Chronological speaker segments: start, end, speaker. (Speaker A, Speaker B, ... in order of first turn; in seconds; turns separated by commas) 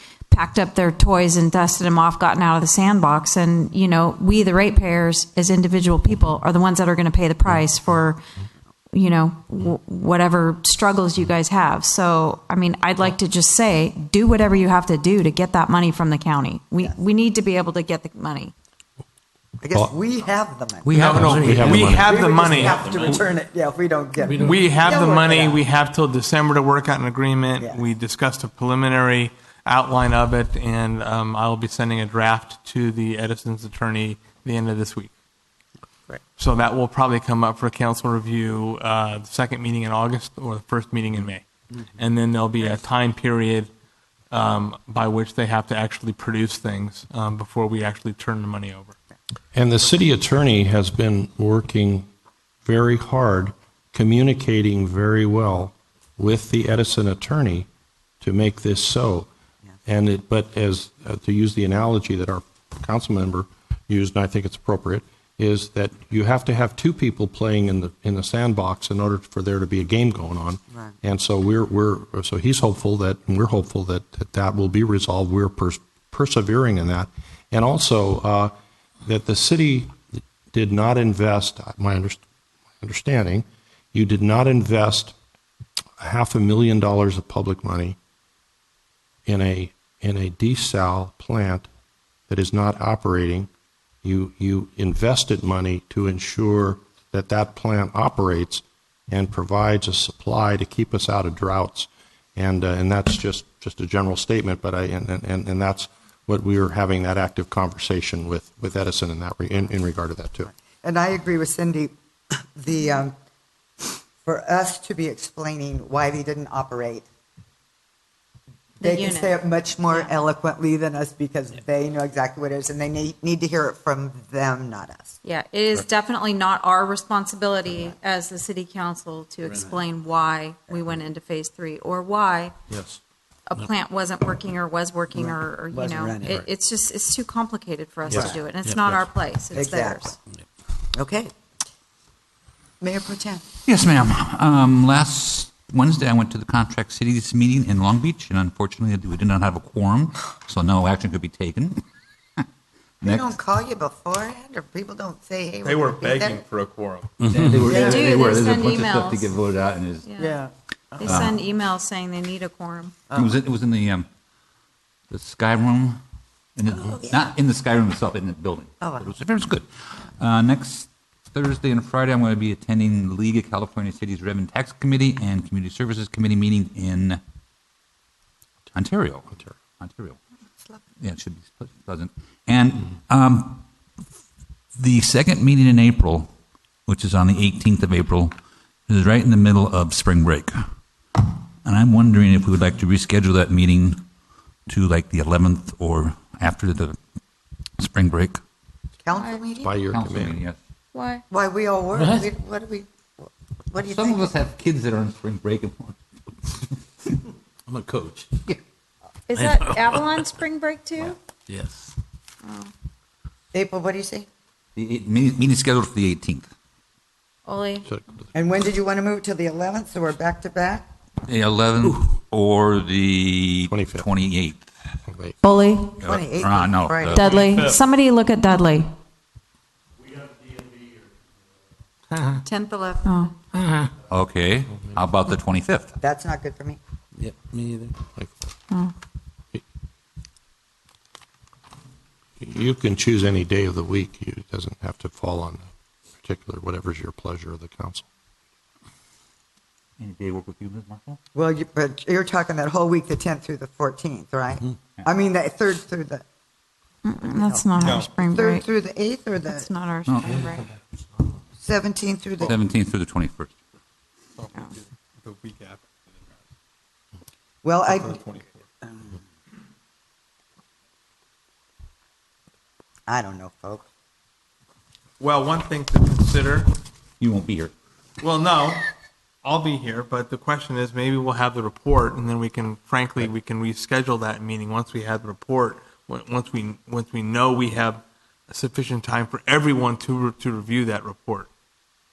Speaker A: 0.3-8.2, Speaker A: 8.9-18.5, Speaker B: 19.6-25.6, Speaker C: 20.9-23.2, Speaker D: 20.9-22.0, Speaker E: 21.4-22.1, Speaker D: 24.3-24.6, Speaker C: 24.4-35.1, Speaker B: 27.6-27.8, Speaker C: 36.4-43.7, Speaker C: 44.3-48.9, Speaker E: 49.5-52.1, Speaker E: 52.6-57.7, Speaker E: 58.2-59.3, Speaker E: 59.9-82.2, Speaker E: 82.8-85.1, Speaker E: 86.0-88.0, Speaker E: 89.2-91.7, Speaker E: 92.3-93.5, Speaker E: 94.0-110.5, Speaker B: 110.8-111.9, Speaker B: 112.5-113.1, Speaker B: 114.2-117.0, Speaker A: 118.8-119.4, Speaker B: 118.8-125.2, Speaker A: 119.9-120.1, Speaker A: 125.2-132.5, Speaker E: 132.7-133.0, Speaker A: 133.5-140.2, Speaker B: 135.1-136.4, Speaker B: 138.1-138.4, Speaker D: 138.6-139.0, Speaker B: 139.5-140.1, Speaker B: 140.9-141.3, Speaker B: 142.8-143.4, Speaker F: 143.7-151.8, Speaker B: 153.0-156.4, Speaker F: 153.0-153.3, Speaker C: 155.6-157.1, Speaker D: 157.2-157.8, Speaker F: 157.3-160.1, Speaker B: 157.5-158.2, Speaker A: 157.6-159.3, Speaker A: 160.1-160.4, Speaker B: 160.2-161.3, Speaker A: 161.0-162.9, Speaker F: 161.0-161.4, Speaker B: 163.1-163.3, Speaker F: 163.1-164.1, Speaker F: 165.1-166.0, Speaker F: 166.6-177.2, Speaker B: 166.9-167.3, Speaker B: 168.8-169.1, Speaker F: 178.7-180.2, Speaker F: 181.0-183.6, Speaker F: 184.8-186.3, Speaker F: 186.9-188.3, Speaker F: 188.9-190.5, Speaker F: 191.2-194.0, Speaker F: 194.7-196.9, Speaker F: 197.8-198.4, Speaker B: 199.0-199.8, Speaker A: 199.1-199.4, Speaker E: 199.6-200.4, Speaker F: 199.9-200.6, Speaker A: 200.9-201.2, Speaker B: 201.3-204.3, Speaker F: 203.8-206.0, Speaker D: 207.7-208.3, Speaker A: 209.3-211.2, Speaker D: 209.4-210.0, Speaker D: 211.5-211.9, Speaker A: 212.4-212.7, Speaker B: 213.5-214.3, Speaker F: 214.8-216.5, Speaker A: 217.4-217.9, Speaker B: 218.3-220.9, Speaker F: 221.2-224.6, Speaker E: 223.7-224.1, Speaker E: 225.1-225.4, Speaker A: 225.4-226.0, Speaker B: 226.0-227.3, Speaker F: 226.0-227.4, Speaker A: 227.1-228.9, Speaker A: 232.4-233.3, Speaker F: 234.1-235.9, Speaker B: 236.0-236.8, Speaker D: 237.2-237.9, Speaker E: 238.2-238.4, Speaker E: 242.4-245.7, Speaker E: 246.2-248.1, Speaker F: 250.0-251.2, Speaker B: 251.3-256.2, Speaker A: 257.0-258.6, Speaker B: 257.2-259.7, Speaker C: 257.8-258.1, Speaker A: 259.4-260.6, Speaker F: 260.1-260.4, Speaker B: 261.6-262.5, Speaker F: 262.4-263.5, Speaker C: 264.4-266.4, Speaker B: 267.6-268.2, Speaker C: 267.9-268.5, Speaker B: 273.1-273.9, Speaker C: 275.2-276.7, Speaker F: 277.2-277.7, Speaker C: 278.2-278.9, Speaker C: 279.4-291.5